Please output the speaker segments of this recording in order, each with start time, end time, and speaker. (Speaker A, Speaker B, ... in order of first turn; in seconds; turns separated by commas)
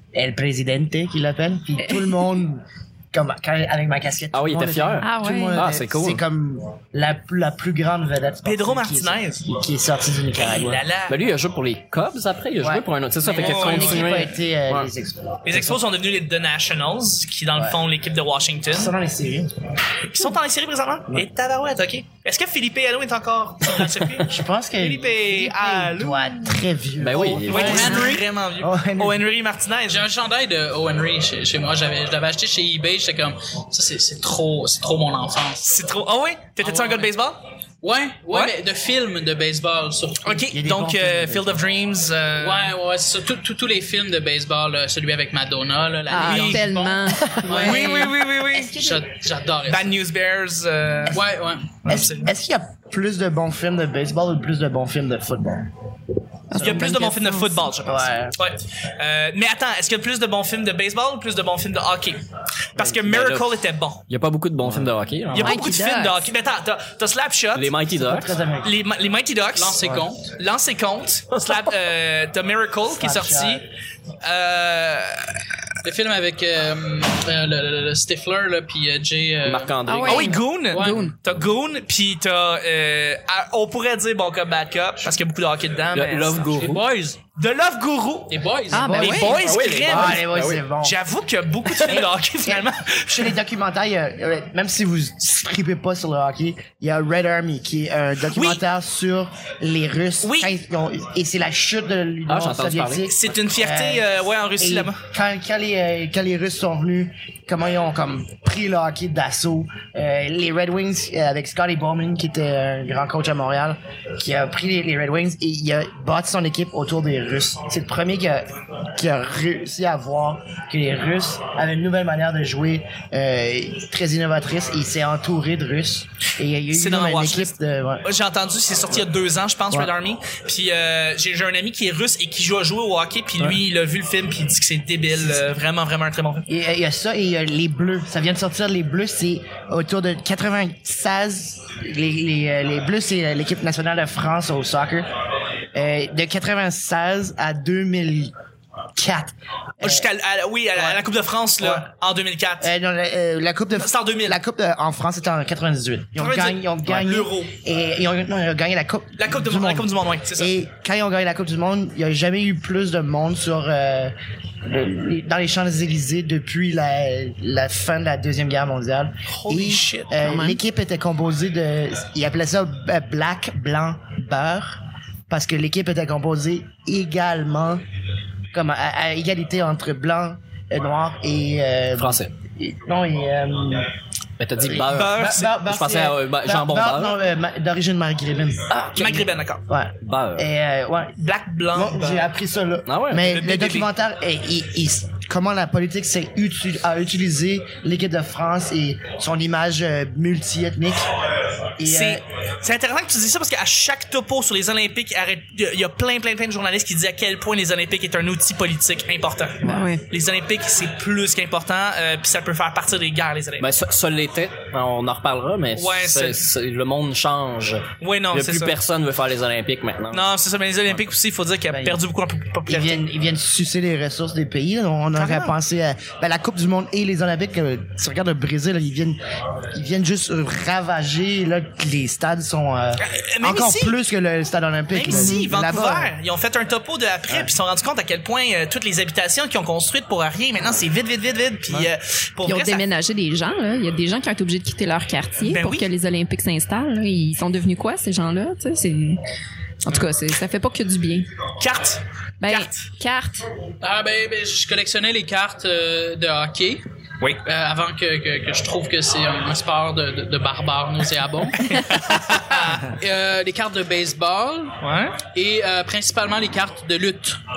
Speaker A: 0.1-10.8, Speaker B: 4.3-6.2, Speaker C: 5.0-5.7, Speaker D: 8.4-9.4, Speaker D: 10.4-11.2, Speaker B: 11.1-14.9, Speaker A: 12.6-15.4, Speaker D: 13.3-14.2, Speaker D: 15.4-18.9, Speaker A: 18.7-19.5, Speaker D: 20.1-26.5, Speaker A: 24.2-29.3, Speaker B: 27.0-27.9, Speaker D: 27.3-30.1, Speaker E: 27.8-28.2, Speaker E: 29.9-35.8, Speaker D: 35.6-37.4, Speaker E: 36.6-37.1, Speaker E: 37.8-40.5, Speaker D: 38.3-38.5, Speaker D: 40.2-42.7, Speaker A: 40.5-41.5, Speaker E: 42.4-47.1, Speaker C: 46.1-48.1, Speaker D: 46.2-46.6, Speaker A: 47.4-47.9, Speaker D: 47.5-48.8, Speaker A: 48.5-49.0, Speaker E: 48.7-50.0, Speaker D: 49.7-51.2, Speaker E: 51.1-51.8, Speaker D: 51.8-52.3, Speaker A: 51.9-55.7, Speaker C: 56.5-57.7, Speaker A: 56.5-57.0, Speaker D: 56.5-62.2, Speaker A: 57.8-58.4, Speaker D: 62.8-64.1, Speaker B: 62.9-65.6, Speaker D: 65.3-67.7, Speaker C: 65.4-66.3, Speaker B: 67.6-68.3, Speaker A: 68.0-68.7, Speaker D: 68.6-73.7, Speaker E: 69.5-70.2, Speaker A: 72.9-73.6, Speaker D: 74.2-75.4, Speaker E: 75.8-79.7, Speaker B: 79.5-80.2, Speaker C: 79.9-81.2, Speaker D: 80.0-86.7, Speaker B: 85.9-86.8, Speaker E: 86.7-87.2, Speaker D: 87.3-93.3, Speaker E: 88.3-88.9, Speaker C: 88.7-89.5, Speaker A: 88.7-91.0, Speaker B: 89.4-90.7, Speaker A: 91.8-128.1, Speaker D: 98.3-98.6, Speaker D: 100.2-100.5, Speaker B: 102.3-103.0, Speaker D: 103.0-105.0, Speaker D: 126.7-127.5, Speaker D: 128.0-136.4, Speaker A: 135.1-135.4, Speaker A: 136.5-145.1, Speaker A: 145.7-148.3, Speaker A: 149.0-150.1, Speaker D: 149.8-152.7, Speaker A: 150.8-151.0, Speaker A: 151.6-151.9, Speaker A: 152.6-164.1, Speaker D: 153.8-154.4, Speaker D: 156.2-157.5, Speaker D: 159.2-160.5, Speaker A: 164.7-177.8, Speaker D: 169.3-170.4, Speaker C: 170.3-170.6, Speaker A: 178.5-183.9, Speaker B: 182.0-182.3, Speaker B: 184.4-185.2, Speaker A: 184.6-188.7, Speaker D: 184.8-185.7, Speaker B: 185.8-187.2, Speaker B: 188.7-189.2, Speaker D: 189.0-189.6, Speaker A: 189.7-191.2, Speaker B: 190.0-190.5, Speaker D: 191.2-192.3, Speaker A: 191.7-201.0, Speaker B: 192.9-193.3, Speaker D: 193.2-193.9, Speaker A: 201.8-202.2, Speaker D: 201.9-213.7, Speaker C: 209.6-210.0, Speaker B: 213.6-220.3, Speaker D: 215.7-216.4, Speaker D: 218.0-218.8, Speaker D: 220.1-223.0, Speaker A: 221.7-222.0, Speaker A: 222.7-229.2, Speaker D: 225.2-225.6, Speaker A: 229.7-236.1, Speaker D: 233.0-234.0, Speaker D: 234.9-242.8, Speaker C: 235.1-235.5, Speaker C: 242.4-249.2, Speaker D: 245.4-245.9, Speaker C: 249.8-251.3, Speaker D: 251.6-252.7, Speaker C: 252.4-253.5, Speaker E: 253.8-256.9, Speaker E: 257.4-261.6, Speaker D: 261.6-262.9, Speaker E: 262.6-264.8, Speaker D: 264.8-265.2, Speaker E: 265.3-267.4